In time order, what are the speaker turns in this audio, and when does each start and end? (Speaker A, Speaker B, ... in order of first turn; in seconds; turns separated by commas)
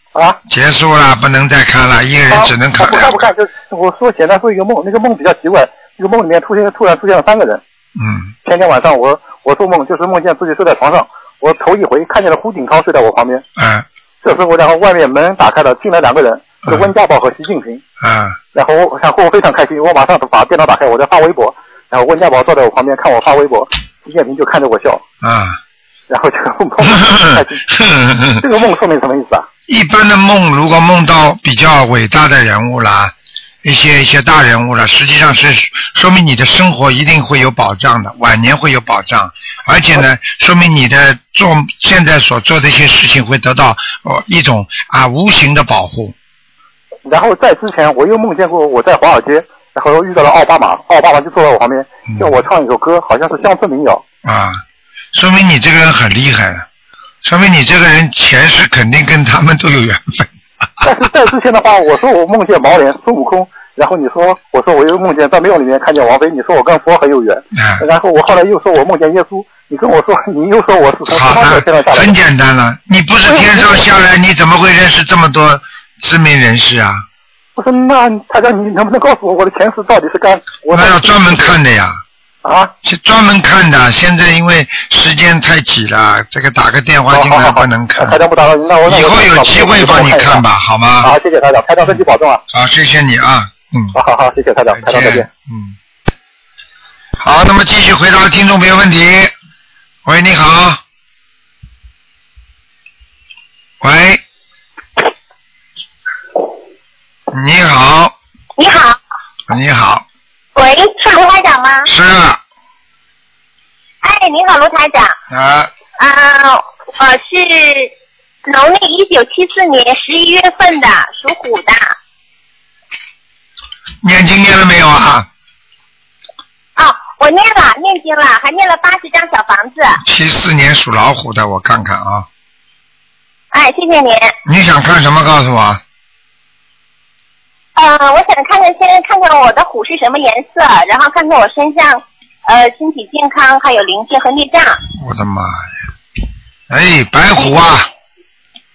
Speaker A: 0.1-0.4, Speaker B: 0.5-3.3, Speaker A: 2.3-7.6, Speaker B: 8.0-8.3, Speaker A: 8.4-13.4, Speaker B: 13.6-13.8, Speaker A: 14.2-17.8, Speaker B: 16.6-16.9, Speaker B: 18.0-18.4, Speaker A: 18.5-25.0, Speaker B: 25.2-25.6, Speaker A: 26.1-27.6, Speaker B: 26.9-28.4, Speaker A: 28.4-29.5, Speaker B: 29.7-46.1, Speaker A: 47.0-54.0, Speaker B: 52.1-52.4, Speaker B: 54.2-54.6, Speaker B: 55.1-56.7, Speaker B: 57.2-60.8, Speaker A: 60.8-72.2, Speaker B: 67.5-67.8, Speaker B: 71.1-77.0, Speaker A: 73.3-73.8, Speaker A: 77.5-81.5, Speaker B: 80.7-82.0, Speaker A: 82.4-82.7, Speaker B: 82.8-88.2, Speaker A: 87.1-90.4, Speaker B: 88.8-91.1, Speaker A: 91.0-92.4, Speaker B: 91.9-94.0, Speaker A: 93.9-95.3, Speaker B: 94.7-95.8, Speaker B: 97.2-99.3, Speaker B: 100.0-100.8, Speaker B: 103.8-104.2, Speaker B: 107.3-108.1, Speaker C: 108.6-109.0, Speaker B: 109.5-110.0, Speaker C: 110.5-111.9, Speaker B: 111.8-112.4, Speaker C: 114.0-115.2, Speaker B: 115.3-115.7, Speaker C: 116.0-117.9, Speaker C: 118.4-122.0, Speaker B: 124.0-125.3, Speaker C: 126.8-130.0, Speaker B: 130.0-132.3, Speaker C: 133.5-134.3, Speaker B: 134.4-135.8, Speaker C: 137.8-144.8, Speaker B: 144.9-145.6, Speaker B: 146.7-147.9